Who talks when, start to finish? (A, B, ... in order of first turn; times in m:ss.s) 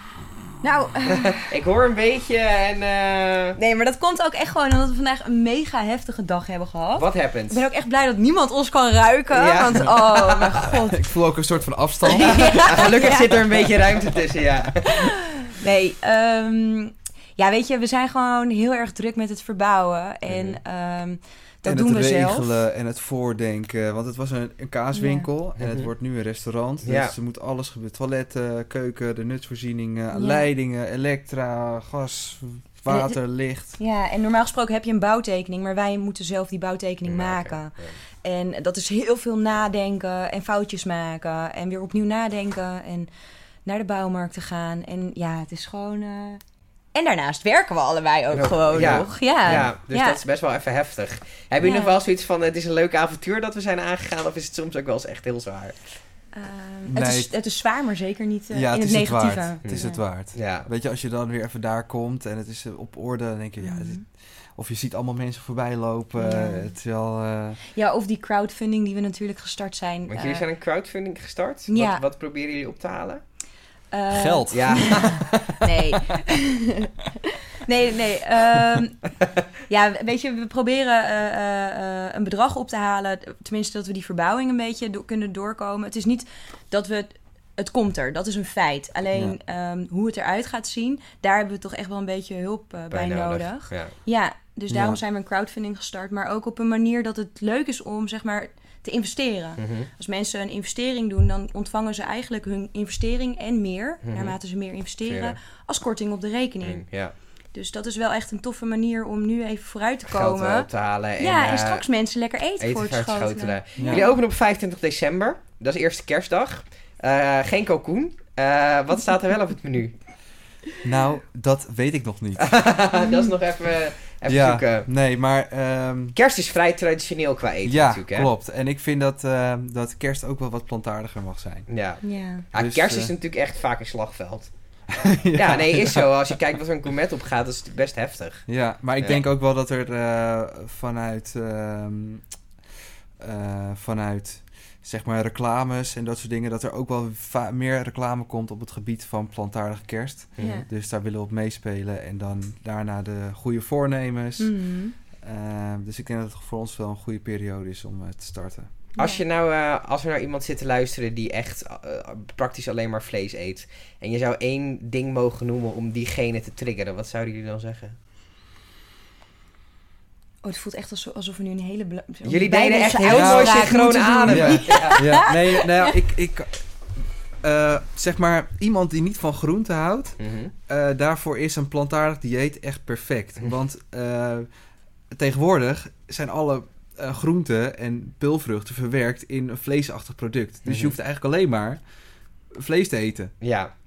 0:00.6-0:01.5 A
0:01.1-0:03.6 B
0:03.6-0:11.1 A
0:07.0-0:07.6 B
0:09.3-0:10.5 B
0:10.9-0:12.9 C
0:12.0-0:13.7 A
0:12.2-0:15.1 B
0:14.9-0:22.6 A
0:20.3-0:20.6 B
0:21.6-0:33.8 C
0:24.9-0:25.3 A
0:25.6-0:25.9 B
0:26.8-0:27.1 B
0:30.1-0:30.5 A
0:32.9-0:33.2 A
0:33.8-0:37.7 A
0:37.0-0:38.0 B
0:38.2-0:43.1 A
0:43.6-0:46.4 A
0:46.9-0:50.2 A
0:48.3-0:55.8 B
0:48.7-0:49.7 C
0:51.6-0:52.0 A
0:56.3-1:00.0 A
0:56.9-0:57.3 C
0:58.5-1:07.6 C
0:59.6-1:00.7 B
1:03.6-1:04.0 A
1:06.2-1:06.7 A
1:07.7-1:10.4 A
1:10.1-1:13.2 B
1:11.7-1:12.0 A
1:13.9-1:17.1 A
1:14.1-1:14.8 C
1:14.5-1:15.6 B
1:17.6-1:19.0 A
1:19.7-1:46.8 A
1:32.9-1:33.9 B
1:34.7-1:35.0 C
1:39.6-1:39.9 B
1:44.0-1:44.4 B
1:45.0-1:45.4 B
1:46.6-1:47.1 B
1:47.5-1:54.1 A
1:50.1-1:51.8 B
1:52.6-1:59.9 B
1:53.8-1:54.0 C
2:00.8-2:02.6 C
2:02.4-2:04.9 B
2:03.0-2:03.3 A
2:04.3-2:06.2 C
2:06.1-2:08.3 B
2:07.6-2:11.7 C
2:11.7-2:14.5 B
2:12.0-2:12.4 A
2:12.5-2:13.1 C
2:14.9-2:16.3 C
2:15.3-2:18.5 B
2:18.5-2:22.2 C
2:23.2-2:34.6 C
2:30.4-2:30.6 B
2:30.4-2:30.6 A
2:34.4-2:35.0 A
2:35.2-2:38.7 C
2:39.0-2:48.0 B
2:50.4-2:56.0 A
2:52.2-2:55.0 B
2:53.1-2:56.6 C
2:57.4-3:04.5 C
3:00.2-3:00.5 B
3:05.1-3:11.8 C
3:10.6-3:11.0 B
3:12.6-3:13.3 C
3:13.4-3:13.7 B